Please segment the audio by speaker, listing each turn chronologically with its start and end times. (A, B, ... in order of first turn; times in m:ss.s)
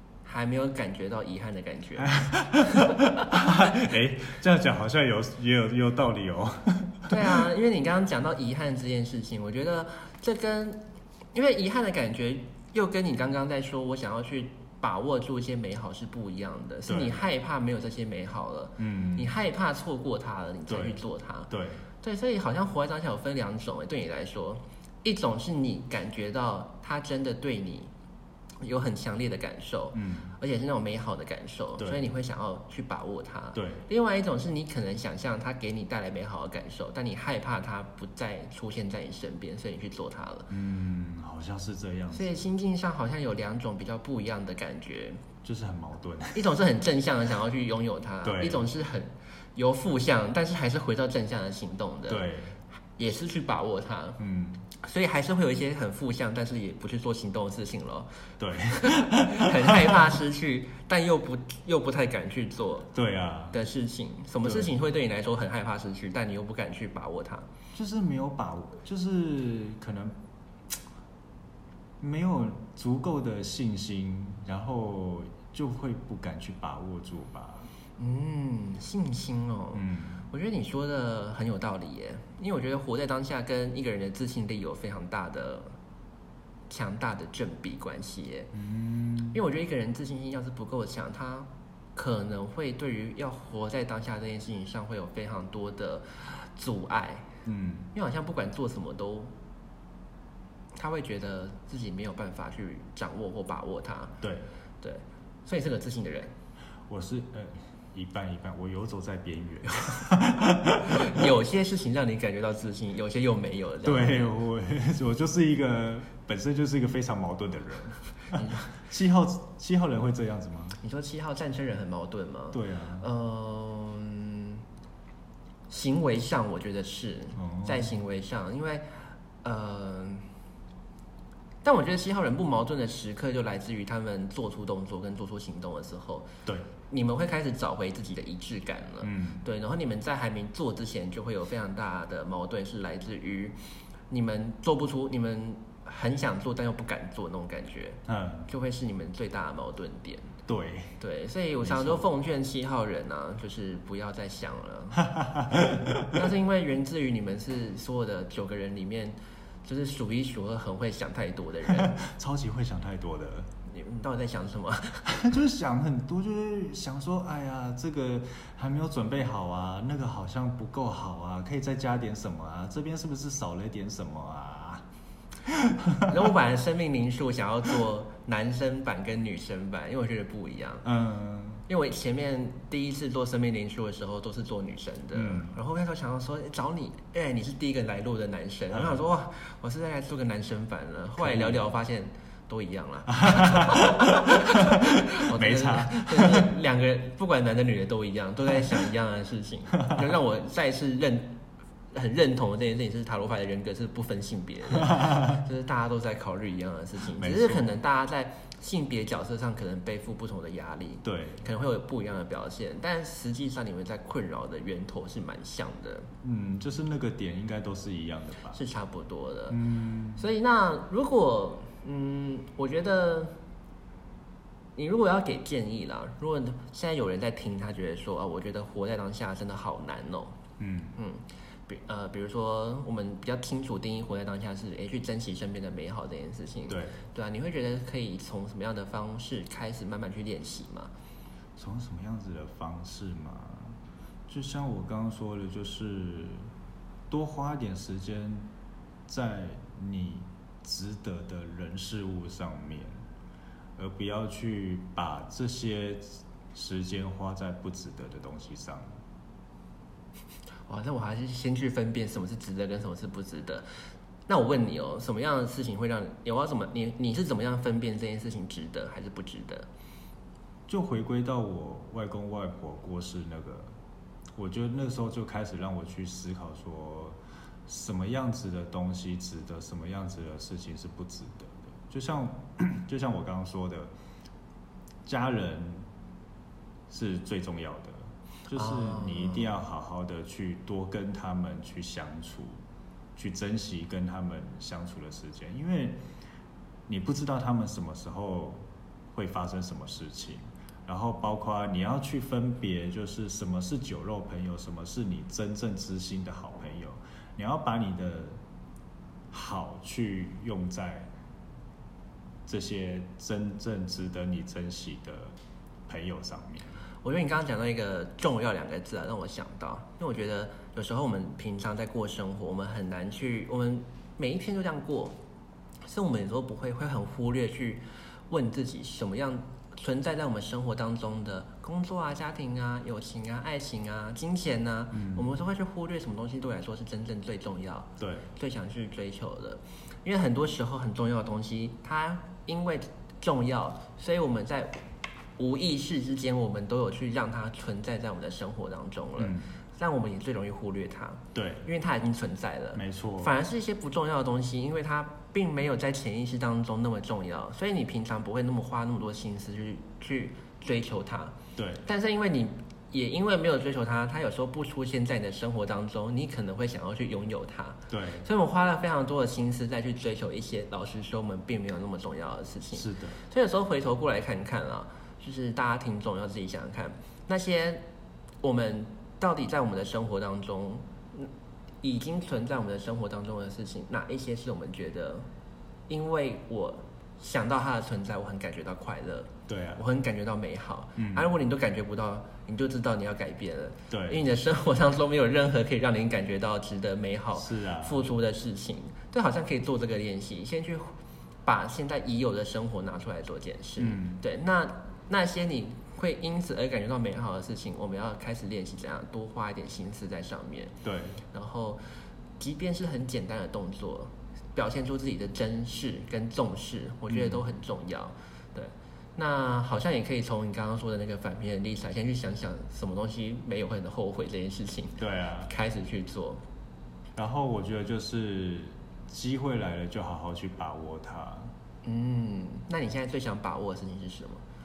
0:00.2-0:03.2 A
0:02.0-0:07.2 B
0:07.1-0:10.8 A
0:11.3-0:21.5 A
0:16.9-0:17.2 B
0:18.8-0:19.3 B
0:20.7-0:21.0 B
0:21.5-0:21.9 B
0:22.0-0:27.9 A
0:28.6-0:40.5 A
0:29.9-0:30.4 B
0:31.8-0:32.1 B
0:33.6-0:33.8 B
0:40.5-0:42.4 B
0:42.1-0:45.2 A
0:45.4-0:46.4 B
0:46.3-0:52.2 A
0:48.2-0:48.7 B
0:52.1-0:52.6 B
0:53.0-0:54.2 A
0:54.2-0:54.6 B
0:54.8-0:58.1 A
0:58.4-1:00.0 B
0:58.8-1:02.9 A
1:02.9-1:03.6 B
1:03.5-1:07.5 A
1:04.4-1:04.7 B
1:07.7-1:10.2 B
1:12.0-1:17.7 B
1:18.0-1:25.7 A
1:19.7-1:20.2 B
1:26.7-1:28.5 A
1:28.5-1:29.4 B
1:29.3-1:37.3 A
1:37.5-1:37.9 B
1:37.9-1:39.3 A
1:40.8-1:44.2 A
1:44.2-1:44.5 B
1:44.8-1:46.3 A
1:46.9-1:51.3 B
1:50.8-1:54.3 A
1:53.8-2:00.8 B
1:58.3-1:58.7 A
2:00.8-2:04.6 A
2:02.5-2:03.1 B
2:05.7-2:08.9 A
2:07.4-2:07.9 B
2:09.4-2:10.3 A
2:11.6-2:16.3 A
2:16.9-2:23.6 A
2:19.0-2:19.4 B
2:24.1-2:30.3 A
2:28.1-2:28.5 B
2:30.5-2:31.0 B
2:31.0-2:35.1 A
2:31.6-2:32.0 B
2:35.0-2:36.2 B
2:36.0-2:42.0 A
2:41.7-2:43.5 B
2:43.7-2:45.2 A
2:45.0-2:54.8 B
2:55.5-2:56.1 B
2:56.1-3:00.8 A
3:00.8-3:01.6 B
3:01.7-3:21.4 A
3:05.1-3:05.6 B
3:11.2-3:11.6 B
3:13.1-3:16.5 B
3:21.9-3:36.1 A
3:24.9-3:25.2 B
3:27.1-3:27.7 B
3:31.0-3:31.5 B
3:36.2-3:38.6 B
3:38.5-3:39.6 A
3:39.5-3:40.2 B
3:40.2-3:43.4 A
3:44.8-3:50.4 A
3:50.6-3:51.0 B
3:51.0-4:00.9 A
3:56.7-3:57.0 B
4:01.6-4:03.8 B
4:04.3-4:06.5 B
4:07.1-4:08.5 B
4:09.1-4:13.0 B
4:13.8-4:18.9 B
4:20.7-4:23.7 A
4:24.3-4:29.7 A
4:30.7-4:33.7 B
4:34.4-4:43.9 B
4:45.0-4:45.8 B
4:46.9-4:52.6 B
4:48.5-4:49.5 A
4:53.2-4:56.0 B
4:56.9-4:58.6 B
4:59.1-5:08.4 B
5:09.3-5:11.1 B
5:12.5-5:15.4 B
5:15.9-5:16.8 B
5:17.0-5:25.2 A
5:25.9-5:44.8 A
5:34.9-5:35.3 B
5:38.0-5:38.3 B
5:45.4-6:01.4 A
5:49.2-5:49.4 B
5:51.3-5:51.7 B
5:52.8-5:53.4 B
6:01.6-6:01.8 B
6:01.9-6:17.8 A
6:07.9-6:08.3 B
6:12.8-6:13.2 B
6:18.4-6:21.3 A
6:21.8-6:25.2 A
6:25.9-6:40.9 A
6:29.5-6:29.8 B
6:31.0-6:31.3 B
6:33.9-6:34.2 B
6:37.4-6:38.0 B
6:41.4-6:50.8 A
6:43.8-6:44.2 B
6:50.8-6:51.2 B
6:51.3-6:51.8 A
6:52.4-7:06.4 A
6:57.1-6:57.4 B
7:05.0-7:05.5 B
7:07.2-7:11.5 B
7:11.8-7:14.4 A